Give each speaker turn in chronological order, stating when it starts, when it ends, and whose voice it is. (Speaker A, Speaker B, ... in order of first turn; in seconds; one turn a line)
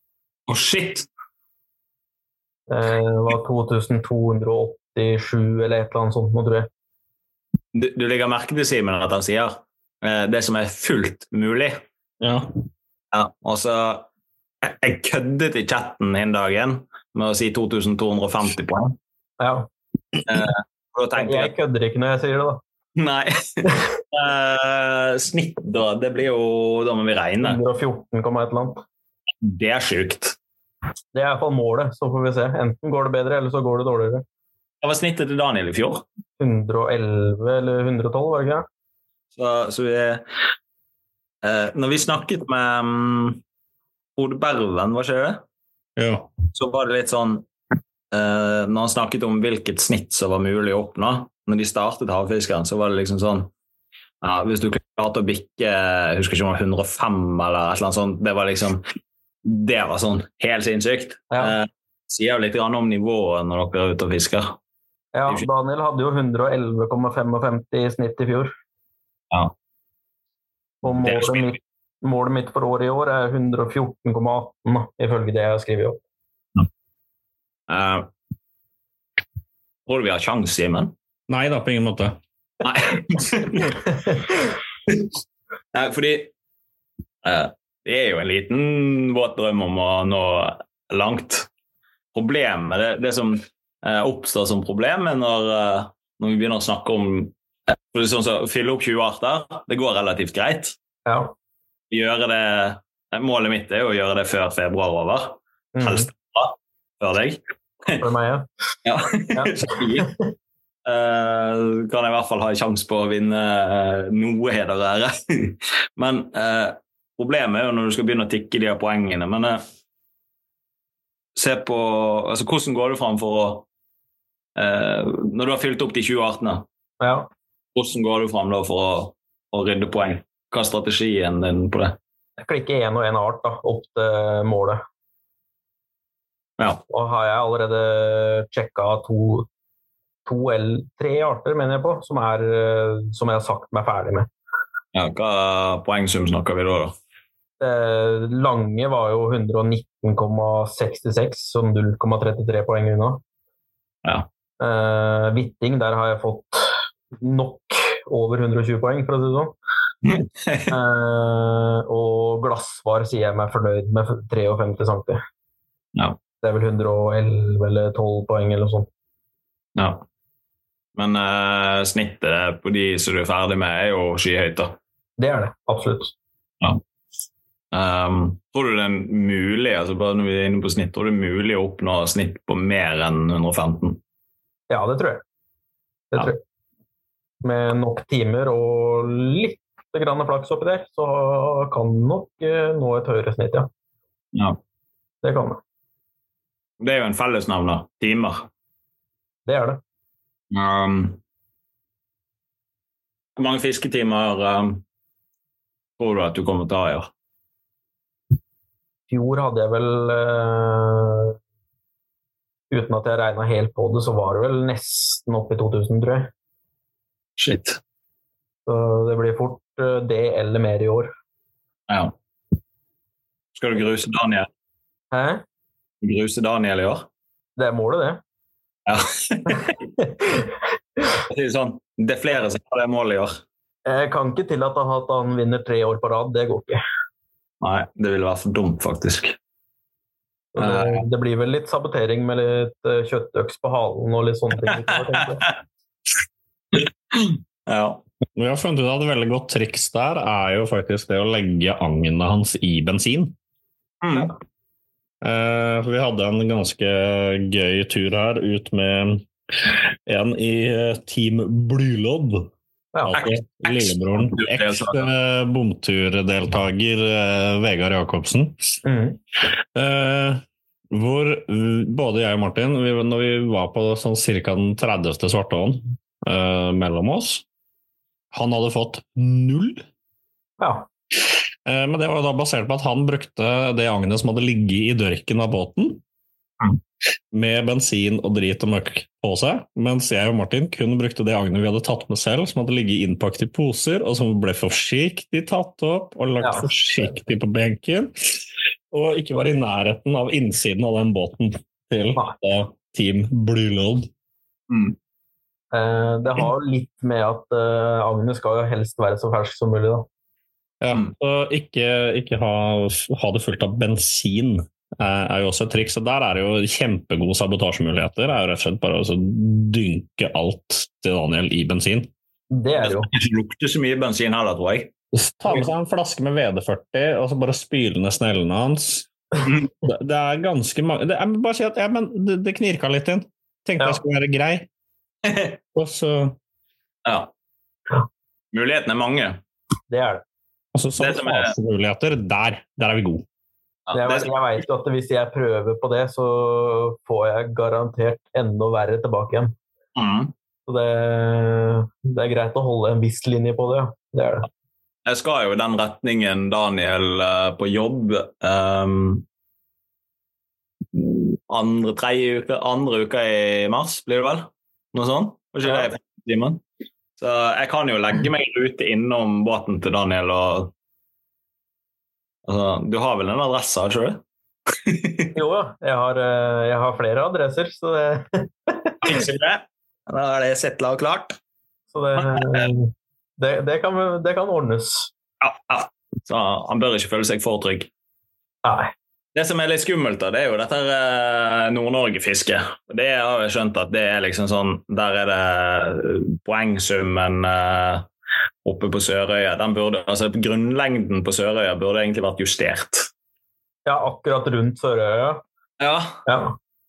Speaker A: 0.5-1.1
Speaker B: 2.7-6.7
Speaker A: 7.7-11.8
Speaker C: 12.2-12.5
Speaker A: 13.1-14.1
Speaker A: 14.6-19.0
Speaker B: 19.4-19.7
Speaker A: 20.3-21.5
Speaker B: 21.2-22.6
Speaker A: 23.0-27.6
Speaker B: 27.4-28.8
Speaker A: 29.4-30.4
Speaker B: 31.1-34.2
Speaker A: 34.8-36.0
Speaker B: 36.4-38.7
Speaker A: 39.4-40.2
Speaker A: 41.4-43.4
Speaker A: 44.2-45.4
Speaker C: 46.0-46.3
Speaker A: 46.5-47.5
Speaker A: 48.1-53.5
Speaker A: 54.2-58.8
Speaker A: 59.5-64.6
Speaker B: 65.1-68.5
Speaker B: 70.8-76.0
Speaker A: 71.0-71.5
Speaker A: 77.7-78.1
Speaker A: 79.9-80.9
Speaker C: 81.3-82.2
Speaker A: 82.6-83.9
Speaker A: 85.7-86.3
Speaker A: 87.2-91.5
Speaker A: 92.1-100.8
Speaker B: 101.1-101.3
Speaker A: 101.9-108.0
Speaker B: 105.8-106.1
Speaker B: 108.0-108.5
Speaker A: 108.8-110.1
Speaker B: 109.3-110.1
Speaker A: 110.9-119.6
Speaker A: 121.3-123.7
Speaker A: 124.6-126.7
Speaker B: 127.0-127.3
Speaker A: 127.8-132.0
Speaker B: 132.4-134.8
Speaker B: 136.9-139.5
Speaker B: 140.3-144.3
Speaker A: 144.9-146.9
Speaker B: 147.6-153.2
Speaker B: 154.6-159.6
Speaker A: 160.1-160.7
Speaker B: 160.7-165.2
Speaker B: 166.4-168.9
Speaker A: 169.8-170.0
Speaker A: 170.9-174.8
Speaker B: 175.2-176.1
Speaker A: 177.7-184.0
Speaker B: 184.7-185.2
Speaker B: 186.1-186.4
Speaker B: 187.4-193.7
Speaker A: 194.3-194.6
Speaker B: 195.2-195.6
Speaker A: 196.8-198.5
Speaker B: 199.5-199.8
Speaker A: 200.5-201.2
Speaker A: 203.4-204.8
Speaker A: 206.0-207.1
Speaker B: 209.1-211.3
Speaker B: 212.7-216.3
Speaker A: 217.4-217.8
Speaker B: 218.7-221.1
Speaker A: 221.9-222.2
Speaker A: 223.6-224.5
Speaker B: 225.1-225.4
Speaker A: 226.0-227.1
Speaker B: 227.6-228.2
Speaker A: 228.9-229.8
Speaker B: 230.0-230.5
Speaker A: 231.3-233.3
Speaker B: 233.9-236.8
Speaker A: 237.6-239.4
Speaker B: 240.6-245.4
Speaker A: 240.6-241.1
Speaker A: 245.2-245.5
Speaker A: 246.7-248.0
Speaker C: 248.4-253.3
Speaker A: 254.0-254.3
Speaker C: 255.2-262.5
Speaker B: 262.9-263.2
Speaker C: 263.1-268.8
Speaker A: 263.1-265.1
Speaker B: 268.8-269.2
Speaker C: 269.8-277.4
Speaker C: 278.3-279.8
Speaker B: 280.6-280.9
Speaker C: 281.7-286.0
Speaker C: 287.3-304.1
Speaker B: 296.4-297.1
Speaker A: 304.7-305.0
Speaker B: 305.7-310.1
Speaker C: 310.8-322.1
Speaker B: 322.5-323.1
Speaker A: 322.8-324.9
Speaker C: 325.1-329.1
Speaker C: 329.8-334.7
Speaker A: 335.2-335.6
Speaker C: 335.8-336.4
Speaker A: 337.1-337.3
Speaker A: 338.5-339.4
Speaker B: 339.9-340.2
Speaker C: 340.8-343.2
Speaker A: 341.0-341.5
Speaker A: 343.9-344.3
Speaker B: 343.9-349.6
Speaker A: 350.0-350.3
Speaker B: 350.7-354.5
Speaker A: 355.1-359.2
Speaker A: 360.9-366.6
Speaker B: 365.6-365.9
Speaker A: 367.2-370.7
Speaker A: 372.5-374.2
Speaker A: 374.8-375.3
Speaker B: 375.4-379.1
Speaker A: 379.0-381.4
Speaker B: 381.9-385.1
Speaker A: 382.2-382.7
Speaker A: 385.4-387.9
Speaker B: 388.6-388.9
Speaker A: 389.4-398.1
Speaker A: 398.6-403.1
Speaker B: 403.9-405.4
Speaker A: 405.8-406.2
Speaker B: 406.3-406.6